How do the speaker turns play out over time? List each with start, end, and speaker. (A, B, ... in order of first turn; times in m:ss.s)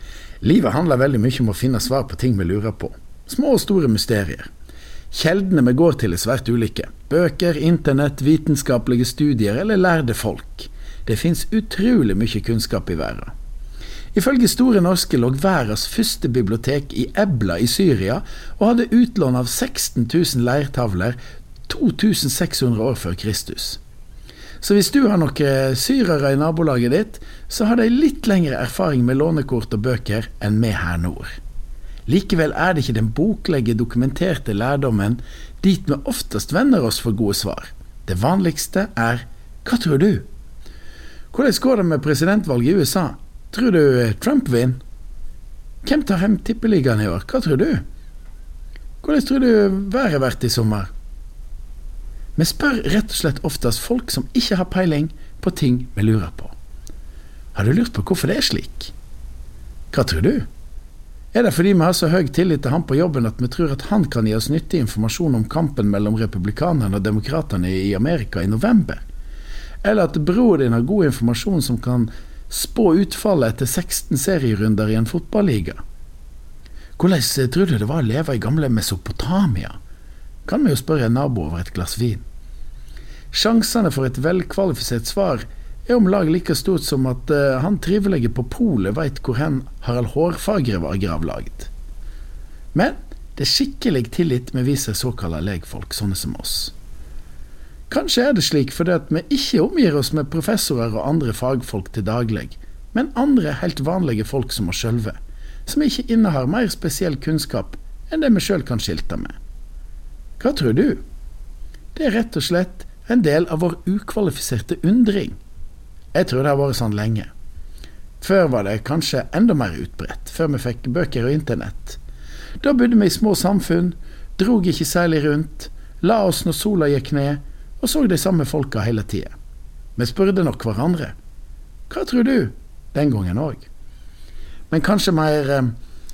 0:00.4-0:04.5 A
0:05.1-0:13.3 A
0:14.1-0:23.8 A
0:24.6-0:31.4 A
0:32.1-0:40.3 A
0:41.3-0:44.8 A
0:45.8-0:47.8 A
0:49.0-0:50.9 A
0:52.4-0:56.6 A
0:57.5-0:58.9 A
0:59.9-1:00.5 A
1:01.3-1:09.0 A
1:09.8-1:15.8 A
1:17.0-1:19.8 A
1:20.4-1:22.2 A
1:23.3-1:31.7 A
1:32.7-1:36.7 A
1:37.9-1:49.4 A
1:50.4-1:51.0 A
1:51.9-1:55.4 A
1:56.1-1:57.3 A
1:58.2-2:02.0 A
2:02.6-2:09.3 A
2:10.0-2:11.1 A
2:11.9-2:13.7 A
2:14.7-2:15.7 A